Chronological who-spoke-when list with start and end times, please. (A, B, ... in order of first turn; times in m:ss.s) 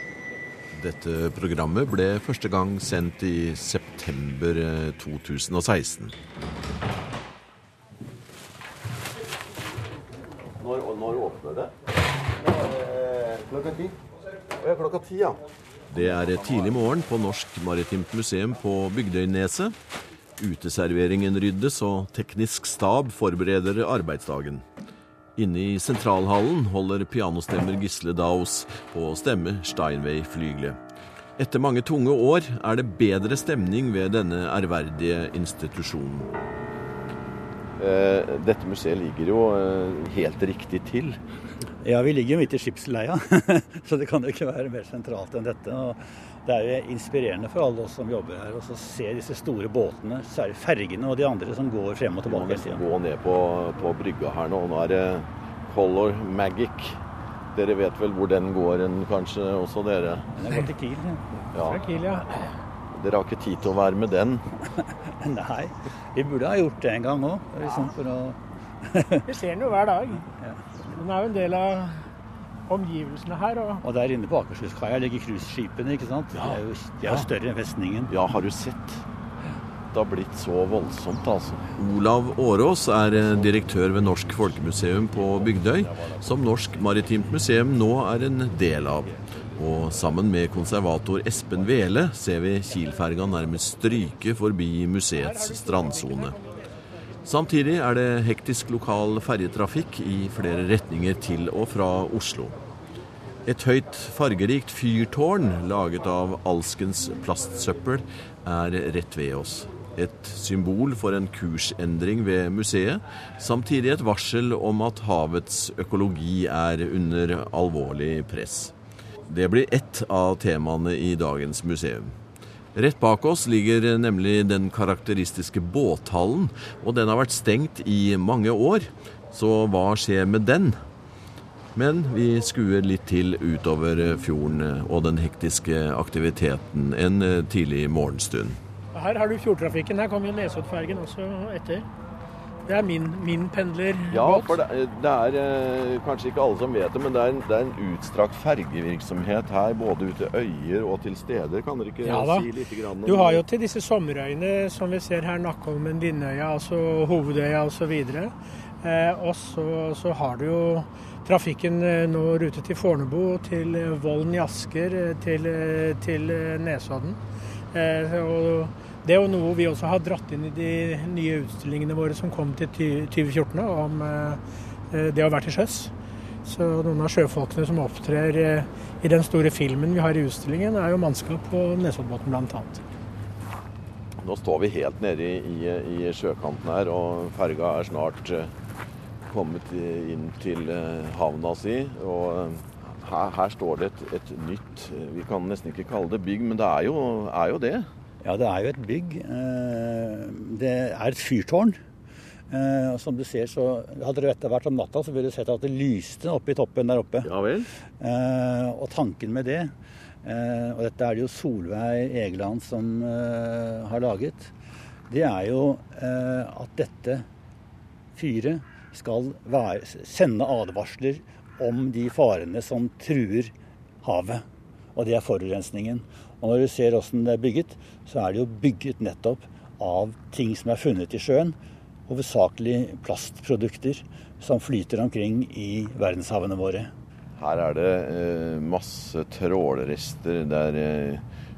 0:00.7-0:06.2 A
0:10.6-0:11.7 A
0:12.4-0:14.0 A
0:14.6-0:15.4 A
0:15.9-0:19.8 A
0:20.4-0:24.6 A
0:25.4-0:30.8 A
0:31.4-0:36.6 A
0:37.8-0:41.2 A
0:41.8-0:52.8 B
0:52.3-0:57.0 A
0:57.6-1:00.3 A
1:00.3-1:01.5 B
1:01.5-1:01.8 A
1:01.6-1:02.6 C
1:02.9-1:04.5 A
1:04.8-1:09.3 B
1:09.3-1:10.3 C
1:10.9-1:12.1 C
1:12.7-1:13.8 C
1:13.8-1:18.1 B
1:16.4-1:17.2 A
1:18.1-1:19.0 A
1:19.9-1:36.3 A
1:35.2-1:36.6 C
1:37.2-1:42.6 A
1:43.5-1:58.7 A
1:59.3-2:02.1 A
2:02.8-2:10.8 A
2:11.8-2:18.6 A
2:18.9-2:21.9 C
2:22.7-2:24.6 C
2:24.1-2:33.4 A
2:32.0-2:32.5 C
2:33.0-2:47.2 C
2:47.7-2:54.4 C
2:54.9-2:55.9 C
2:56.4-3:02.8 C
3:04.2-3:08.5 A
3:09.3-3:17.9 A
3:18.2-3:21.8 B
3:22.5-3:27.3 B
3:27.2-3:27.7 A
3:28.0-3:29.7 B
3:30.2-3:34.5 B
3:35.1-3:37.2 B
3:38.1-3:51.6 B
3:52.1-3:56.9 B
3:57.4-4:01.2 A